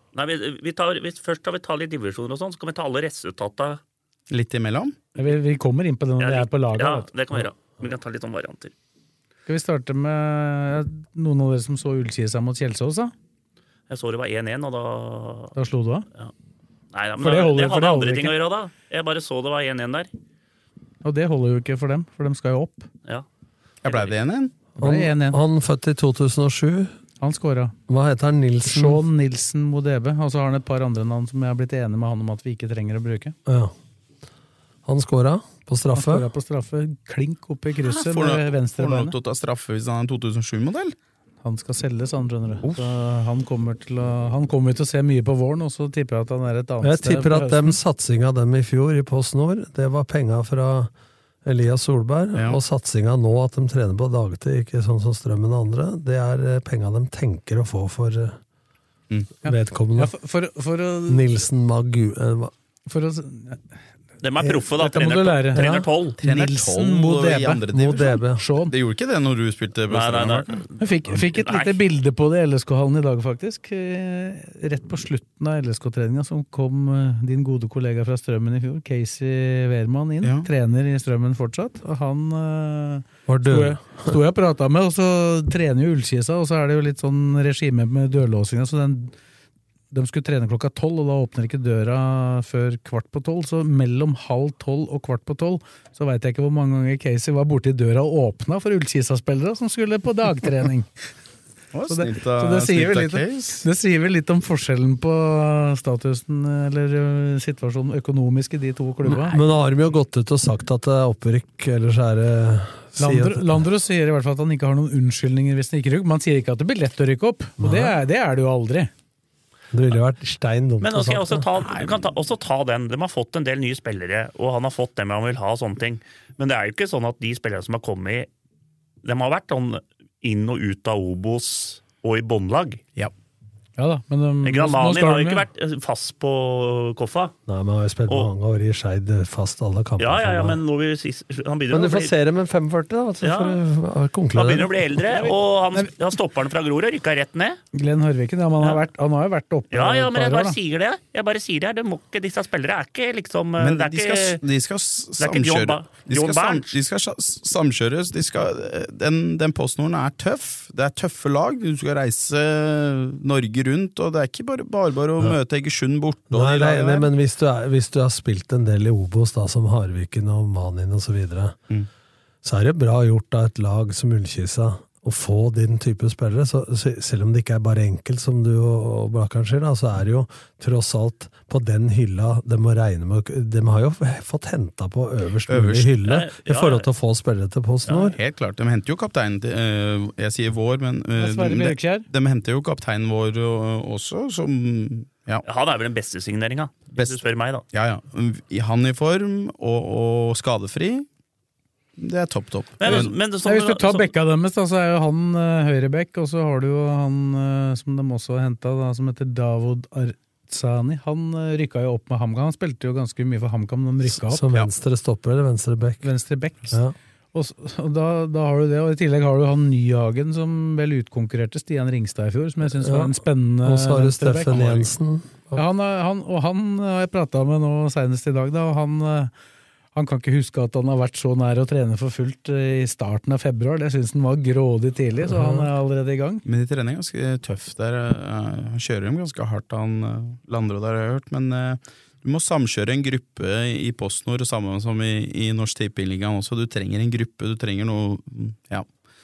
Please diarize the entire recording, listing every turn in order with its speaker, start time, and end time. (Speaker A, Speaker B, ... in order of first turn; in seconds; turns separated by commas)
Speaker A: 0.1-3.8, Speaker B: 4.3-4.9, Speaker C: 5.2-7.1, Speaker A: 6.2-8.7, Speaker C: 9.4-13.1, Speaker A: 13.9-15.5, Speaker C: 15.5-16.1, Speaker A: 16.9-20.1, Speaker C: 17.2-18.4, Speaker C: 21.0-22.9, Speaker B: 23.8-24.5, Speaker A: 23.9-24.1, Speaker C: 24.8-25.4, Speaker D: 24.8-26.9, Speaker C: 27.2-27.7, Speaker D: 27.9-29.0, Speaker C: 28.6-33.4, Speaker D: 33.5-33.7, Speaker D: 34.8-36.3, Speaker C: 35.9-39.1, Speaker B: 37.8-40.9, Speaker C: 41.4-47.8, Speaker D: 46.8-50.9, Speaker D: 51.4-58.4, Speaker B: 52.3-52.6, Speaker D: 59.4-60.1, Speaker C: 59.4-61.2, Speaker D: 61.1-62.5, Speaker C: 62.9-63.6, Speaker A: 64.2-66.2, Speaker C: 64.7-67.6, Speaker D: 65.5-65.8, Speaker B: 66.2-70.6, Speaker D: 67.7-68.4, Speaker C: 68.3-68.7, Speaker A: 69.9-71.8, Speaker C: 70.8-89.1, Speaker D: 83.3-84.2, Speaker C: 89.9-100.9, Speaker B: 101.7-103.6, Speaker C: 101.9-109.4, Speaker D: 109.0-113.6, Speaker C: 113.0-118.9, Speaker D: 117.6-117.9, Speaker D: 119.7-121.5, Speaker A: 120.8-128.3, Speaker B: 121.6-122.0, Speaker A: 129.0-132.8, Speaker C: 133.8-135.4, Speaker A: 134.4-137.3, Speaker D: 137.5-140.6, Speaker A: 140.0-142.1, Speaker D: 141.7-144.7, Speaker A: 143.2-143.6, Speaker A: 144.3-147.6, Speaker C: 145.1-145.9, Speaker C: 147.7-150.6, Speaker A: 149.7-154.4, Speaker B: 153.6-167.1, Speaker A: 155.2-156.7, Speaker D: 166.3-171.6, Speaker D: 172.4-188.2, Speaker B: 185.5-185.9, Speaker A: 186.0-186.8, Speaker B: 188.0-195.4, Speaker C: 191.2-192.1, Speaker A: 195.4-197.6, Speaker B: 196.9-197.2, Speaker B: 197.7-201.1, Speaker B: 202.0-203.1, Speaker A: 202.8-204.1, Speaker C: 202.9-214.4, Speaker D: 214.2-216.1, Speaker C: 216.0-216.8, Speaker C: 217.3-224.8, Speaker D: 222.8-225.6, Speaker C: 225.5-229.3, Speaker C: 229.9-236.4, Speaker D: 235.3-235.7, Speaker B: 236.4-248.9